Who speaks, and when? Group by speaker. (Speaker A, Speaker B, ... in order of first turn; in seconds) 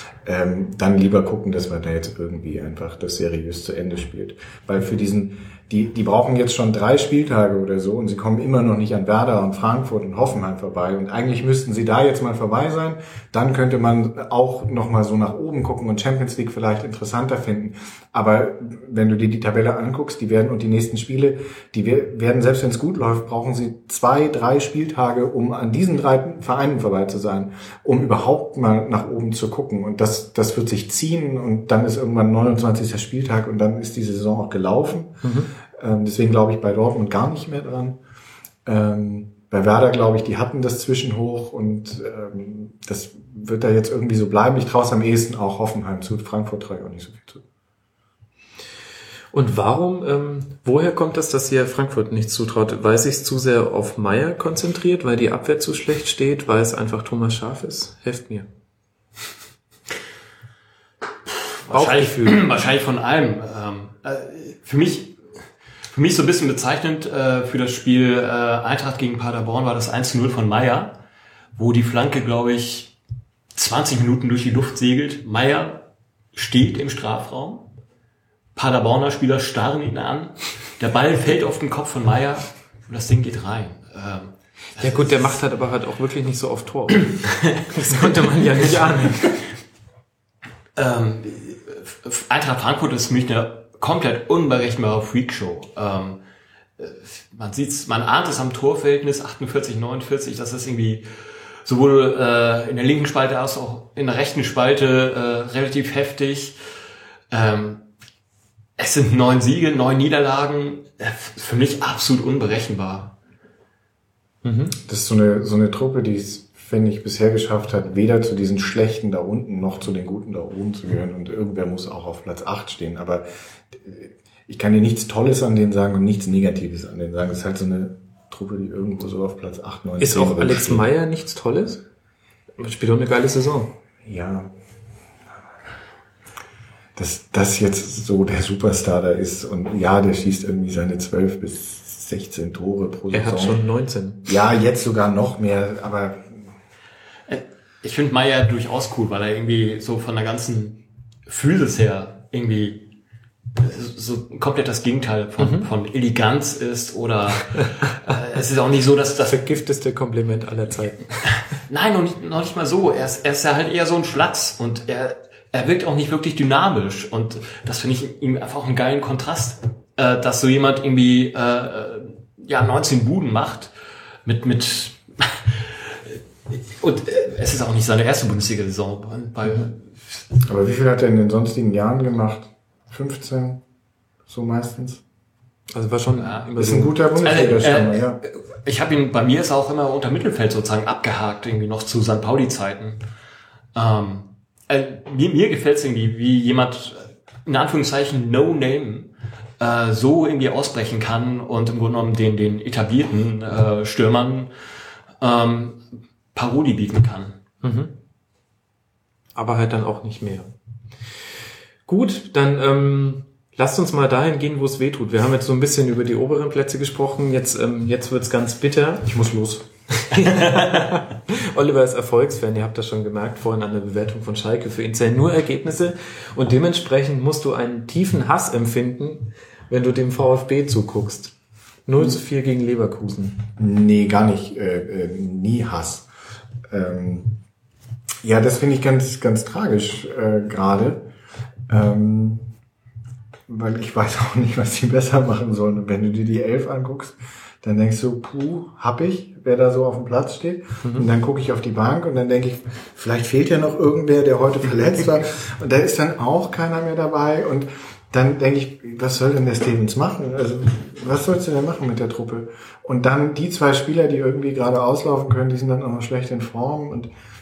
Speaker A: 0.2-38.0, 38.6-47.4, 114.8-130.9, 134.1-134.5, 137.0-143.6, 144.3-146.4, 180.5-183.6, 184.3-185.0, 186.6-188.2, 219.1-219.7, 233.6-236.1, 236.7-237.4, 238.2-241.1, 241.7-242.5, 243.5-267.1
Speaker B: 35.2-35.5, 49.3-58.5, 61.7-62.5, 84.8-89.5, 114.4-114.8, 130.0-131.8, 132.6-133.7, 143.1-144.3, 155.4-155.7, 159.3-161.3, 185.7-187.5, 207.6-207.9, 209.3-210.5, 211.9-219.1, 220.0-231.3, 231.9-233.4, 250.8-251.1
Speaker C: 61.3-65.2, 65.9-71.0, 71.6-72.9, 73.5-77.7, 78.6-84.9, 87.9-89.3, 90.8-96.2, 96.8-101.0, 101.7-106.6, 107.3-107.8, 108.8-113.1, 147.3-152.9, 153.6-159.4, 161.7-173.7, 174.2-180.2, 186.2-186.5, 187.2-193.0, 193.7-204.5, 205.2-205.8, 206.3-207.4